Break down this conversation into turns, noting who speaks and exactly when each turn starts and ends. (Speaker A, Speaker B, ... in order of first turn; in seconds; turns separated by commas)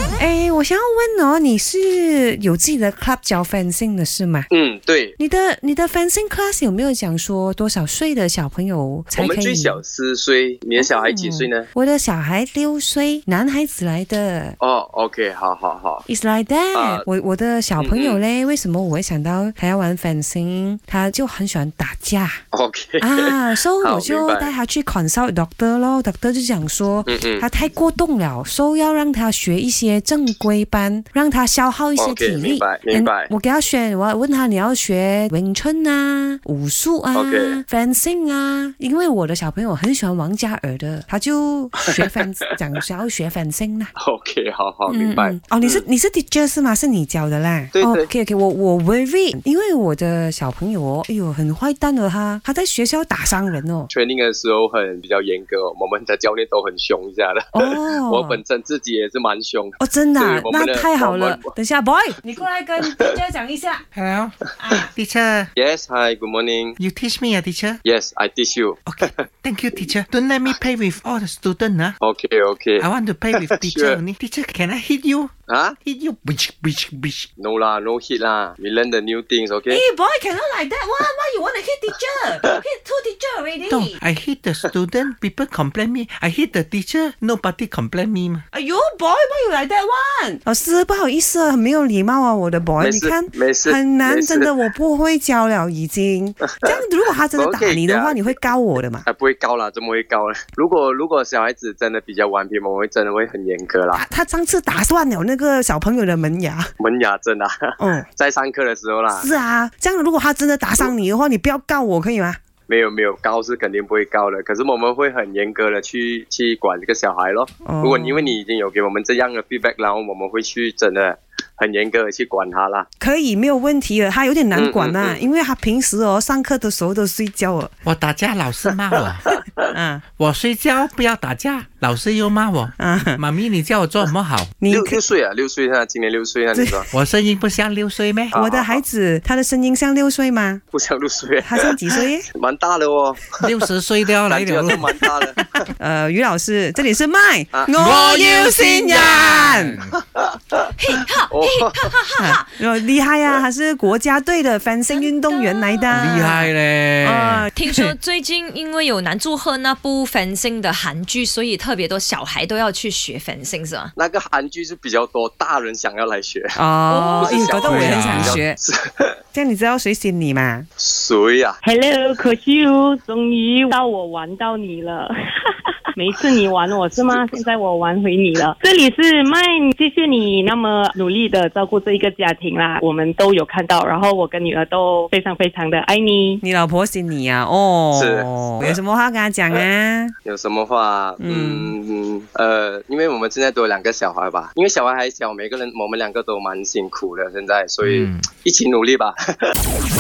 Speaker A: 0.2-4.5, Speaker B: 4.5-5.2, Speaker A: 5.2-9.8, Speaker B: 9.1-11.7, Speaker A: 10.8-14.6, Speaker B: 14.6-16.0, Speaker A: 16.1-22.4, Speaker B: 16.7-17.0, Speaker B: 17.8-18.2, Speaker B: 22.5-24.5, Speaker A: 23.0-43.9, Speaker B: 27.1-27.4, Speaker B: 32.0-33.3, Speaker B: 37.1-37.6, Speaker B: 44.0-45.8, Speaker A: 44.9-53.9, Speaker B: 47.7-48.1, Speaker B: 53.9-61.5, Speaker A: 57.5-58.4, Speaker A: 59.8-63.8, Speaker C: 63.9-65.5, Speaker B: 65.5-66.8, Speaker C: 66.8-67.8, Speaker B: 67.8-69.1, Speaker C: 68.9-72.0, Speaker B: 72.0-74.0, Speaker C: 72.8-75.3, Speaker B: 75.5-75.8, Speaker C: 75.8-77.3, Speaker B: 77.4-79.8, Speaker A: 79.7-82.9, Speaker D: 82.7-83.7, Speaker A: 83.5-83.9, Speaker C: 83.7-88.4, Speaker A: 88.5-99.0, Speaker B: 92.8-94.5, Speaker B: 96.4-96.8, Speaker B: 97.3-98.4, Speaker B: 99.0-104.0, Speaker A: 103.9-106.7, Speaker B: 106.8-109.3, Speaker A: 107.8-108.0, Speaker A: 109.1-112.4, Speaker B: 112.7-122.9, Speaker A: 117.6-118.3, Speaker A: 123.0-127.7, Speaker B: 124.5-125.2, Speaker C: 127.8-129.2, Speaker A: 129.7-130.0, Speaker C: 130.2-134.5, Speaker A: 132.8-133.2, Speaker A: 134.6-135.0, Speaker B: 134.7-136.9, Speaker A: 136.5-136.8, Speaker C: 136.9-138.4, Speaker B: 138.3-138.8, Speaker A: 138.3-140.6, Speaker B: 140.7-143.5, Speaker A: 141.4-142.2, Speaker C: 143.4-145.0, Speaker B: 144.2-145.7, Speaker A: 145.8-149.8, Speaker C: 147.8-149.9, Speaker D: 150.8-152.6, Speaker B: 151.3-151.8, Speaker A: 152.2-156.4, Speaker D: 154.9-156.5, Speaker C: 155.9-157.5, Speaker A: 157.0-157.9, Speaker D: 157.5-163.9, Speaker B: 163.9-166.6, Speaker A: 166.5-168.6, Speaker D: 166.9-167.9, Speaker B: 167.2-169.1, Speaker C: 167.6-168.4, Speaker A: 169.3-170.7, Speaker B: 170.8-171.6, Speaker E: 171.6-186.4, Speaker B: 177.0-177.4, Speaker A: 186.4-190.1, Speaker B: 187.9-188.8, Speaker B: 190.2-199.5, Speaker A: 191.2-191.7, Speaker C: 197.8-198.2